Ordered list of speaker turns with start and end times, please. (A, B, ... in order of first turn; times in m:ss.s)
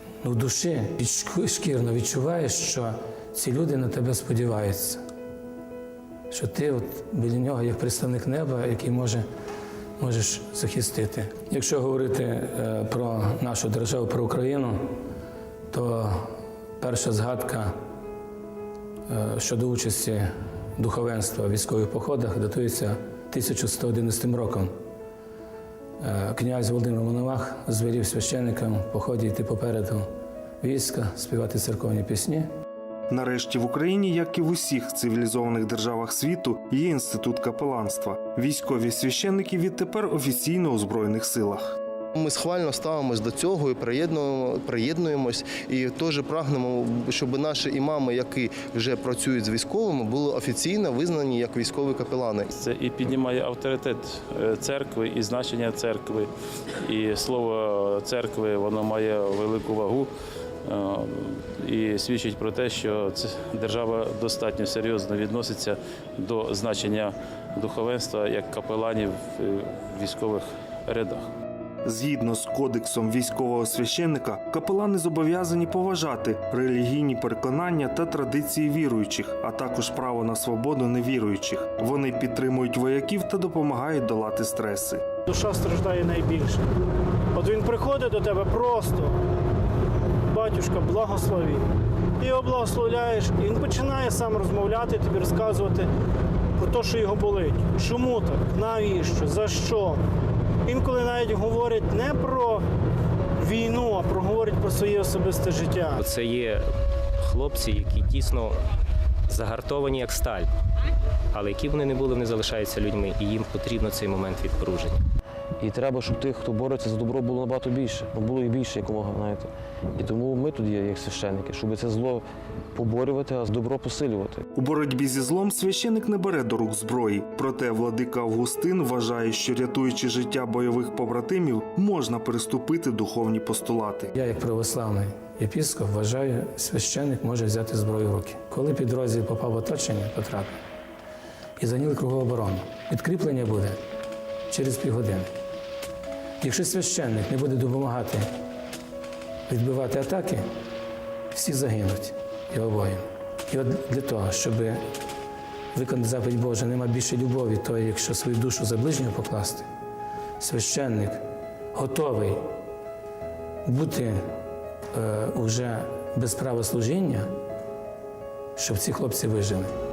0:00.2-0:05.0 A
0:06.3-0:09.2 A
0:10.0-0:14.8 A
0:15.7-0:17.7 A
0:19.1-0:24.7 A
0:26.0-0:30.0 A
0:30.6-0:32.5 A
0:33.1-0:41.8 B
0:42.2-0:52.5 C
0:52.5-0:56.3 D
0:56.8-1:00.1 D
1:00.7-1:11.3 D
1:11.8-1:25.0 B
1:25.3-1:26.6 E
1:27.3-1:29.1 E
1:30.3-1:31.6 E
1:32.2-1:35.9 E
1:36.6-1:40.0 E
1:40.7-1:42.6 E
1:43.4-1:46.0 E
1:47.5-1:48.3 F
1:49.3-1:50.5 F
1:51.4-1:55.0 F
1:55.6-2:04.4 G
2:04.6-2:14.1 B
2:14.2-2:20.5 A
2:21.6-2:23.8 A
2:24.5-2:25.3 A
2:26.4-2:28.3 A
2:29.5-2:30.4 A
2:31.3-2:34.8 A
2:35.7-2:39.7 A
2:40.4-2:41.2 A
2:41.7-2:42.4 A
2:43.7-2:44.2 A
2:44.9-2:47.3 A
2:48.6-2:49.7 A